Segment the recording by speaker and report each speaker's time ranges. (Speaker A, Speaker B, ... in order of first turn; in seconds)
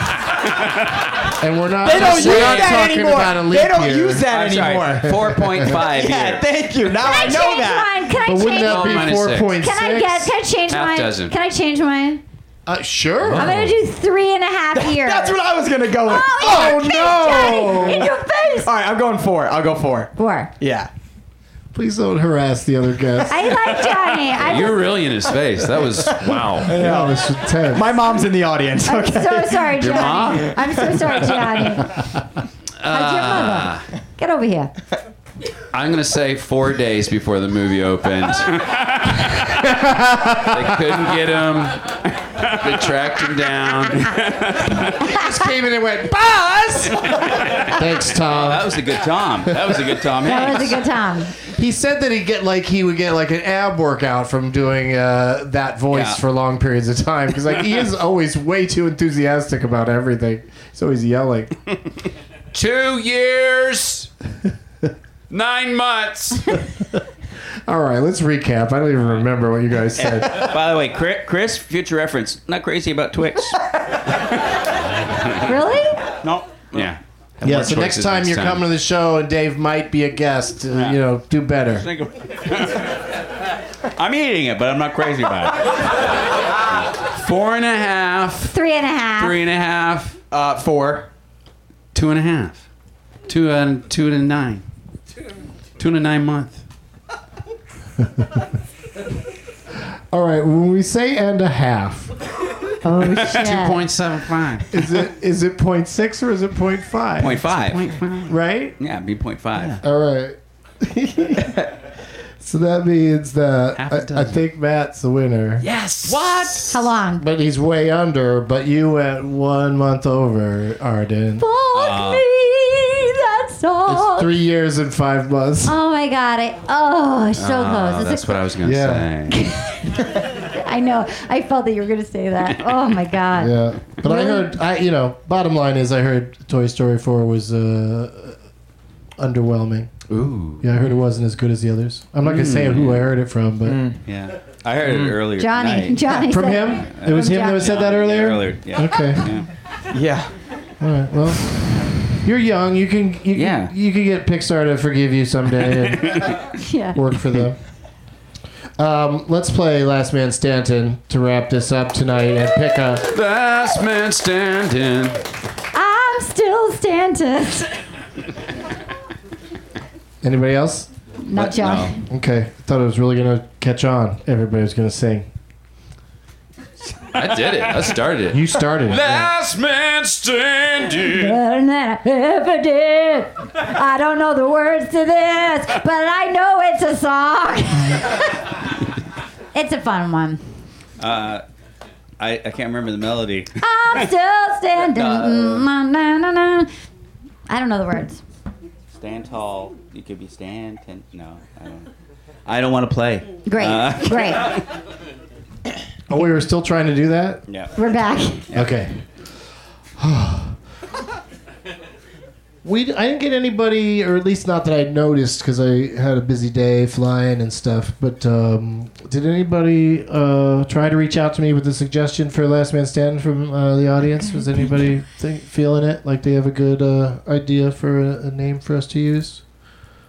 Speaker A: 1.4-4.3, 5.0-5.7, 8.2-10.3, 12.7-13.6, 16.4-18.1, 21.7-23.7, 26.6-27.9, 39.6-41.0, 45.0-48.8, 49.5-49.8, 51.5-61.6, 67.7-70.5, 77.4-81.9, 100.1-102.1, 104.7-107.5, 108.3-108.8, 109.8-111.7, 112.4-115.7, 117.2-121.4, 123.9-125.8, 128.6-129.1, 133.3-138.4, 139.2-140.0, 140.6-143.8, 146.1-149.4, 150.8-151.6, 152.2-156.3, 156.9-157.6, 158.8-163.1, 170.2-170.9, 172.1-175.3, 178.3-179.3, 206.1-207.4, 208.5-209.0, 210.0-210.6, 212.6-229.4
Speaker B: 1.8-7.9, 14.7-20.9, 26.1-30.7, 90.3-91.1, 143.6-144.0, 144.8-145.2, 149.9-150.3
Speaker C: 1.9-2.9, 8.5-9.5, 10.7-11.3, 13.2-13.8, 24.3-26.8, 29.8-31.3, 32.8-33.8, 35.7-39.6, 40.5-41.8, 42.4-44.5, 62.5-64.1, 65.3-66.6, 76.7-78.6, 87.2-88.5, 89.2-90.2, 91.9-92.6, 93.3-94.6, 95.8-96.6, 103.1-104.7, 107.5-108.3, 113.7-114.4, 115.6-116.9, 127.4-129.4, 140.1-140.7, 163.1-165.2, 171.6-171.9, 177.1-181.3
Speaker D: 4.3-6.4, 48.3-50.8, 55.9-56.2, 70.0-73.7, 76.2-77.0, 80.7-81.0, 81.8-83.0, 84.0-85.9, 107.2-108.0, 108.8-109.8, 121.7-122.2, 142.6-143.0, 144.1-146.1, 146.9-149.5, 153.3-153.7, 171.3-171.8, 191.0-191.4, 192.2-193.5, 194.9-195.6, 199.0-201.8, 202.4-204.7
Speaker E: 7.0-12.2, 13.3-15.4, 16.0-18.7, 20.1-20.5, 23.3-24.9, 28.8-32.0, 32.9-34.7, 50.2-51.3, 75.4-76.0, 88.5-89.4, 102.8-103.8, 116.7-117.2, 121.4-124.3, 125.7-128.5, 129.3-134.5, 145.4-147.6, 156.6-157.0, 165.7-167.7, 171.2-172.0, 181.1-188.2, 189.5-190.4, 193.6-196.7, 197.5-198.2, 203.4-204.5, 207.7-208.4